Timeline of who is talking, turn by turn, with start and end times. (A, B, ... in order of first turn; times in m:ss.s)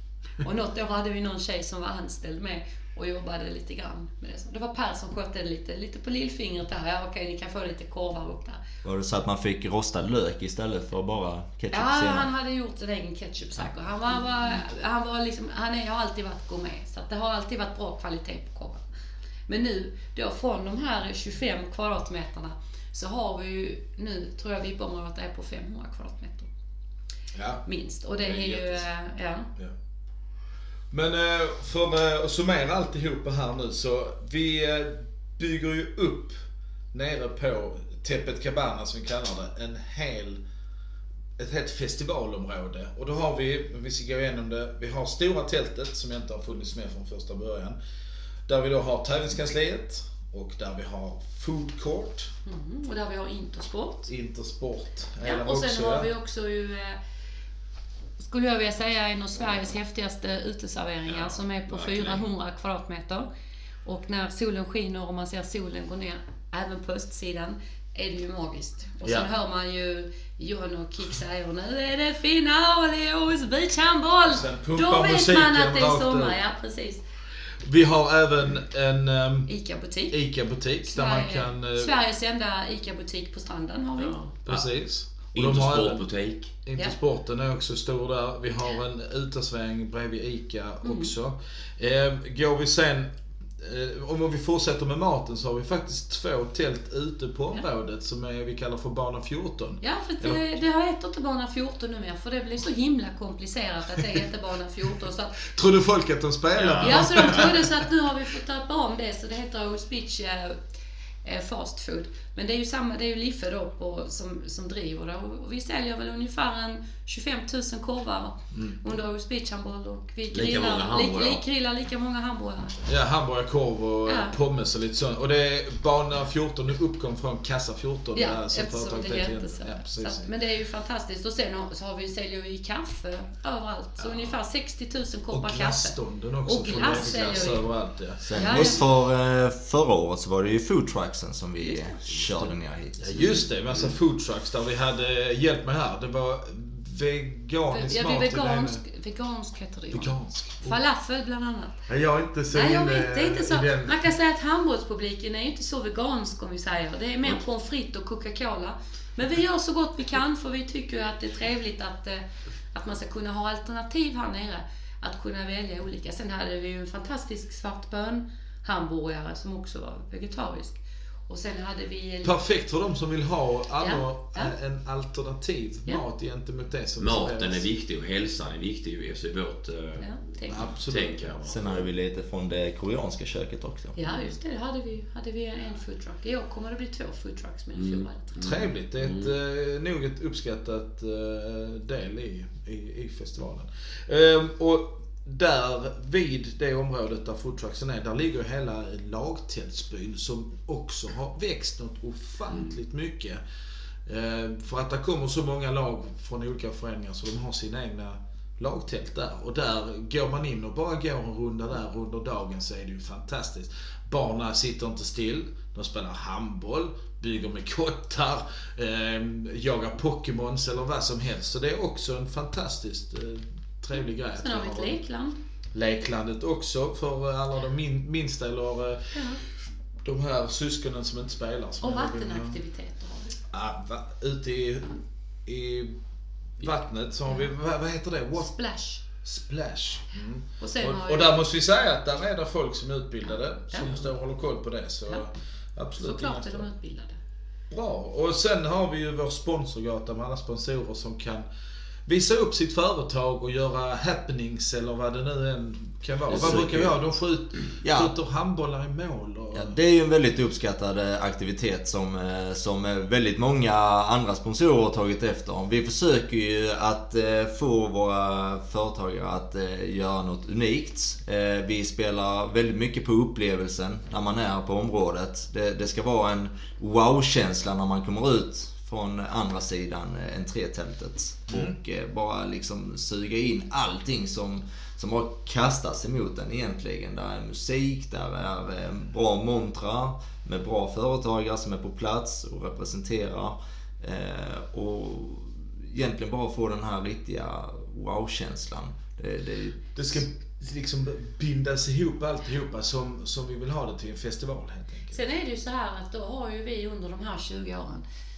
0:00.4-0:08.6 A
0:08.8-0:12.3 B
0:11.7-0:18.8 A
0:19.5-0:26.5 A
0:27.4-0:27.6 C
0:27.6-0:29.5 A
0:28.3-0:28.8 C
0:30.9-0:36.4 C
0:36.9-0:40.4 C
0:41.4-0:47.8 C
0:48.5-0:52.3 C
0:52.5-0:54.1 A
0:54.1-0:56.1 C
0:55.2-0:57.0 A
0:58.2-1:03.3 A
1:01.1-1:02.2 D
1:03.8-1:17.0 A
1:14.3-1:16.4 C
1:17.6-1:19.5 C
1:19.5-1:20.2 A
1:20.1-1:22.0 C
1:20.9-1:24.2 A
1:24.0-1:24.7 D
1:24.5-1:26.0 C
1:25.3-1:26.6 D
1:26.6-1:33.1 C
1:30.8-1:31.1 A
1:33.6-1:40.4 C
1:39.8-1:45.4 A
1:45.5-1:47.7 C
1:46.6-1:47.4 D
1:46.8-1:50.6 A
1:51.2-2:02.8 A
1:58.5-1:58.8 C
2:00.3-2:01.4 D
2:02.9-2:10.3 C
2:04.1-2:04.4 A
2:08.2-2:17.7 A
2:14.0-2:14.3 C
2:15.3-2:18.8 C
2:16.8-2:17.4 D
2:18.2-2:23.4 B
2:18.4-2:18.8 A
2:21.6-2:21.9 A
2:23.0-2:28.8 C
2:23.2-2:23.9 D
2:27.7-2:31.8 A
2:29.9-2:30.8 C
2:31.9-2:34.0 C
2:32.5-2:52.3 A
2:52.2-2:57.6 C
2:53.8-2:54.5 A
2:57.0-3:01.9 D
3:00.0-3:00.6 A
3:00.5-3:01.4 C
3:01.5-3:04.0 B
3:04.0-3:08.3 A
3:07.8-3:09.3 D
3:08.4-3:23.4 C
3:22.5-3:22.8 D
3:24.1-3:45.0 C
3:44.3-3:45.4 A
3:45.7-3:49.1 C
3:49.1-3:49.4 A
3:50.0-3:52.6 C
3:51.8-3:53.4 A
3:53.5-3:55.9 C
3:56.6-3:58.5 C
3:58.4-3:59.0 A
3:59.2-4:06.7 C
4:00.6-4:01.4 A
4:03.3-4:03.9 A
4:06.0-4:07.2 A
4:07.7-4:11.5 C
4:12.1-4:19.8 C
4:16.3-4:17.0 D
4:17.8-4:18.1 B
4:19.5-5:00.2 B
5:00.0-5:05.2 C
5:05.1-5:08.0 A